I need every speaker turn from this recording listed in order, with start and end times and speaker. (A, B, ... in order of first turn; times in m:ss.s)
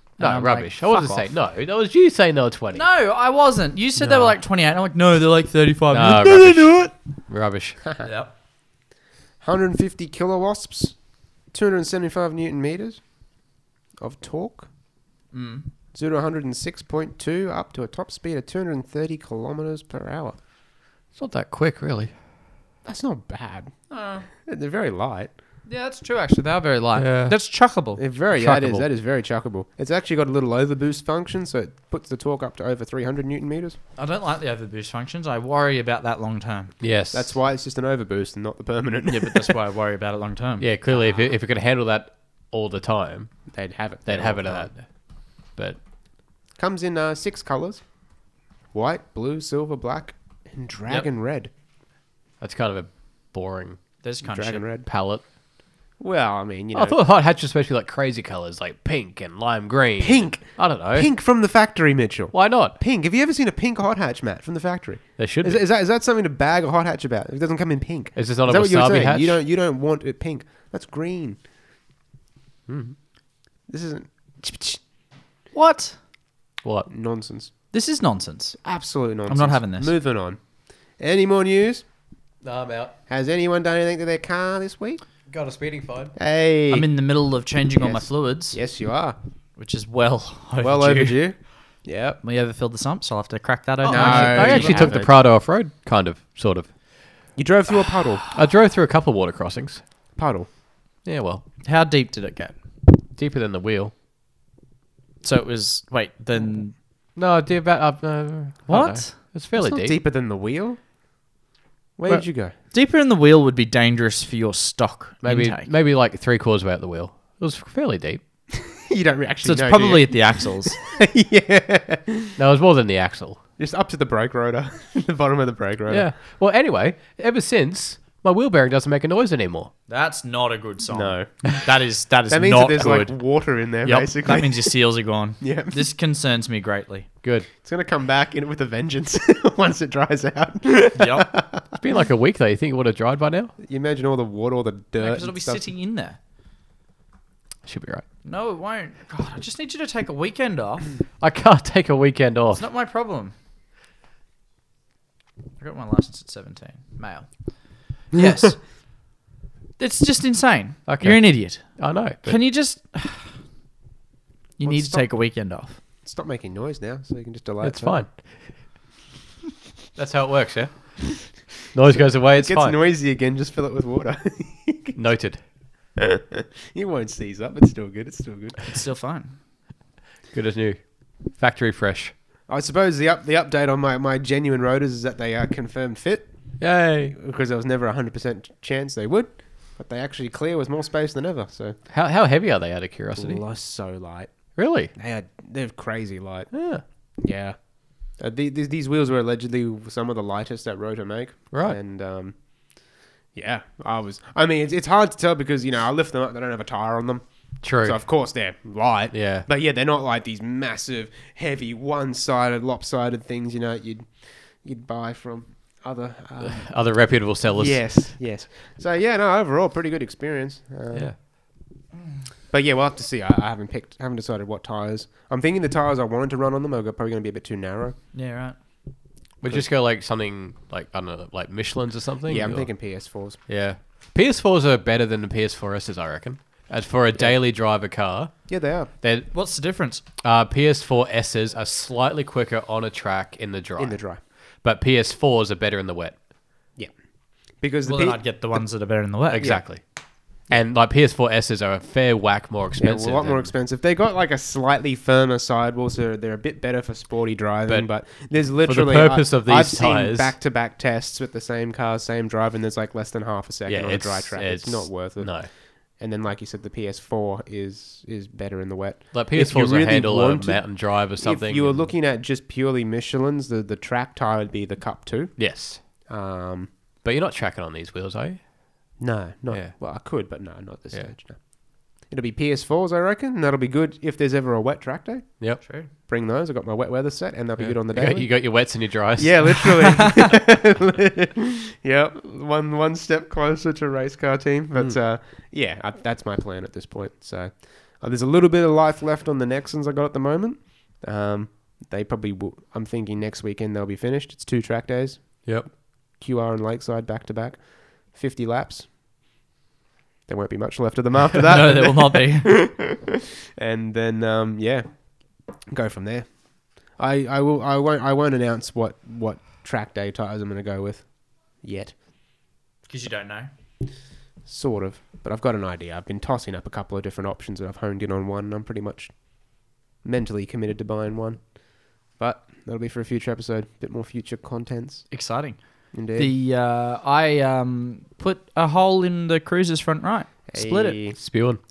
0:00.2-0:01.3 A
0:00.2-0:02.8 B
0:02.7-0:06.9 A
0:04.0-0:04.3 C
0:05.9-0:07.9 B
0:08.0-0:08.3 A
0:09.4-0:11.0 C
0:11.5-0:13.0 C
0:14.0-0:14.7 C
0:15.3-0:15.6 A
0:15.9-0:20.4 C
0:21.2-0:22.1 B
0:22.8-0:23.7 C
0:23.9-0:24.2 A
0:24.4-0:25.3 C
0:25.6-0:28.0 A
0:27.0-0:27.3 B
0:28.0-0:33.8 C
0:28.3-0:28.9 B
0:34.0-0:36.7 A
0:36.8-0:37.3 B
0:37.1-0:39.6 C
0:39.1-0:41.1 A
0:40.6-0:43.3 B
0:43.5-0:44.7 C
0:44.0-0:44.8 B
0:46.6-0:47.8 C
0:48.7-0:51.5 C
0:52.4-0:53.8 B
0:54.0-0:54.6 A
0:54.2-0:54.9 C
0:54.8-0:55.2 B
0:56.0-0:57.0 C
0:56.7-1:01.1 B
1:00.0-1:11.4 C
1:02.3-1:02.8 B
1:05.2-1:05.6 B
1:08.2-1:09.4 B
1:12.7-1:12.9 B
1:13.7-1:14.8 C
1:15.5-1:16.0 A
1:16.6-1:16.9 B
1:16.9-1:17.5 C
1:17.7-1:18.6 A
1:18.6-1:20.4 C
1:19.3-1:19.9 A
1:21.0-1:21.8 C
1:22.4-1:22.9 B
1:23.1-1:25.0 C
1:25.3-1:26.1 B
1:26.2-1:26.9 C
1:26.7-1:28.6 A
1:27.8-1:29.2 C
1:29.6-1:31.2 A
1:30.6-1:32.2 C
1:32.2-1:35.0 A
1:33.8-1:36.7 B
1:33.9-1:35.1 C
1:37.4-1:38.2 C
1:38.3-1:39.8 B
1:40.2-1:40.5 C
1:41.0-1:41.4 B
1:41.6-1:42.6 A
1:43.2-1:43.9 B
1:45.2-1:46.7 A
1:47.2-1:50.0 B
1:48.7-1:49.2 A
1:49.6-1:50.8 C
1:52.0-1:52.5 C
1:52.1-1:55.7 A
1:55.2-1:58.2 B
1:58.5-2:02.4 C
1:59.4-2:00.8 A
2:02.4-2:03.4 B
2:03.6-2:06.1 C
2:05.9-2:09.7 B
2:09.9-2:13.2 A
2:10.9-2:11.3 C
2:12.3-2:14.7 C
2:13.8-2:17.1 A
2:15.4-2:15.8 C
2:17.2-2:17.5 B
2:17.6-2:21.7 C
2:20.9-2:21.3 A
2:21.8-2:23.5 B
2:23.6-2:25.7 C
2:25.0-2:26.2 A
2:27.6-2:28.0 B
2:28.2-2:30.9 A
2:31.2-2:32.6 B
2:32.5-2:33.3 A
2:35.6-2:37.3 A
2:38.1-2:38.6 A
2:39.8-2:43.3 A
2:40.9-2:42.4 B
2:44.6-2:45.8 A
2:44.6-2:45.1 C
2:46.0-2:48.0 C
2:47.6-2:48.1 B
2:50.0-2:51.1 B
2:51.7-2:52.8 B
2:51.9-2:55.0 C
2:54.9-2:55.4 B
2:56.0-2:58.6 C
2:58.7-2:59.3 A
3:00.3-3:02.1 B
3:02.5-3:06.3 C
3:06.6-3:07.1 B
3:07.1-3:11.8 C
3:11.9-3:13.4 B
3:13.2-3:14.4 C
3:14.5-3:14.9 B
3:14.9-3:16.5 C
3:16.5-3:16.8 B
3:17.2-3:17.6 C
3:18.2-3:22.3 C
3:21.5-3:21.8 B
3:23.3-3:27.2 C
3:27.6-3:28.0 B
3:27.8-3:36.7 C
3:29.1-3:29.4 B
3:36.4-3:37.8 B
3:37.5-3:41.1 C
3:42.5-3:48.0 C
3:48.1-3:48.6 A
3:49.4-3:52.7 B
3:52.3-3:53.4 C
3:53.5-3:58.3 B
3:58.5-3:58.9 C
3:59.0-3:59.3 B
3:59.3-4:00.0 A
4:00.2-4:04.0 B
4:03.8-4:04.2 C
4:04.6-4:06.1 B
4:07.6-4:08.2 C
4:07.8-4:09.6 A
4:09.3-4:09.8 B
4:10.5-4:13.5 B
4:12.8-4:25.4 C
4:18.6-4:20.3 B
4:23.7-4:25.5 B
4:26.0-4:35.4 C
4:29.1-4:31.9 B
4:35.4-4:35.8 B
4:36.0-4:36.7 C
4:37.0-4:38.4 B
4:39.0-4:41.4 C
4:39.5-4:39.8 B
4:42.0-5:05.6 C
4:45.6-4:45.9 A
4:47.6-4:49.8 B
5:06.2-5:08.9 C
5:10.3-5:14.9 C
5:11.4-5:12.5 A
5:15.7-5:16.3 C
5:16.8-5:22.0 C
5:22.9-5:23.5 A
5:24.4-5:29.2 C
5:30.0-5:35.1 C
5:35.1-5:41.0 A
5:35.9-5:36.3 C
5:40.5-5:41.2 C
5:41.2-5:41.6 B